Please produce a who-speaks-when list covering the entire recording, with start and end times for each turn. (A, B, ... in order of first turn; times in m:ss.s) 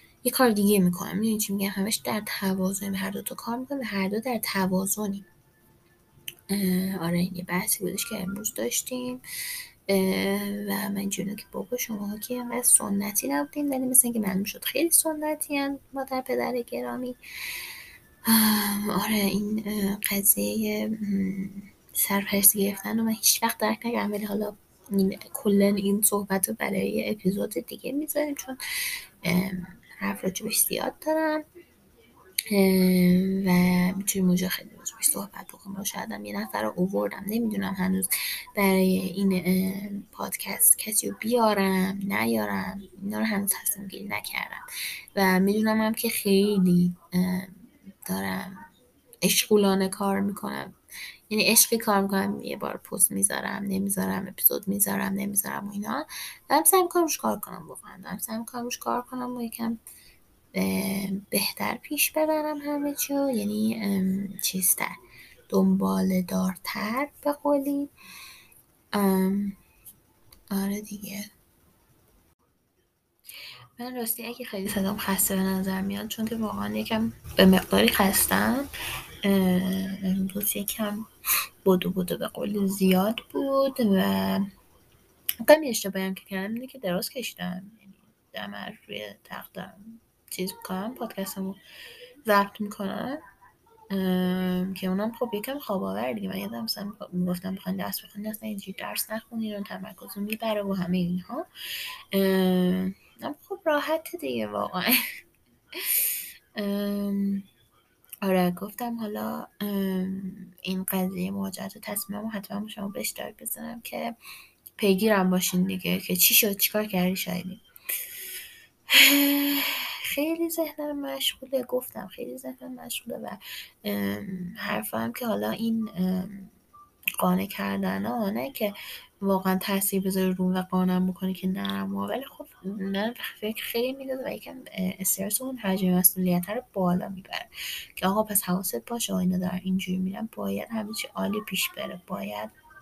0:00.2-0:05.2 A
0:06.5-0:09.2 A
0:09.9-0:17.2 A
0:18.2-0:28.6 A
0:29.2-0:31.4 A
0:32.5-0:44.6 A
0:45.1-0:47.5 A
0:48.1-0:48.6 A
0:49.2-0:50.7 A
0:51.3-0:59.8 A
1:00.5-1:04.9 A
1:05.5-1:07.9 A
1:08.9-1:09.6 A
1:10.5-1:11.3 A
1:13.8-1:18.7 A
1:19.2-1:21.1 A
1:21.6-1:24.5 A
1:25.4-1:31.6 A
1:32.2-1:33.2 A
1:33.9-1:41.5 A
1:42.1-1:44.9 A
1:45.7-1:47.4 A
1:48.2-1:54.2 A
1:54.8-1:57.6 A
1:58.9-2:06.5 A
2:07.2-2:22.5 A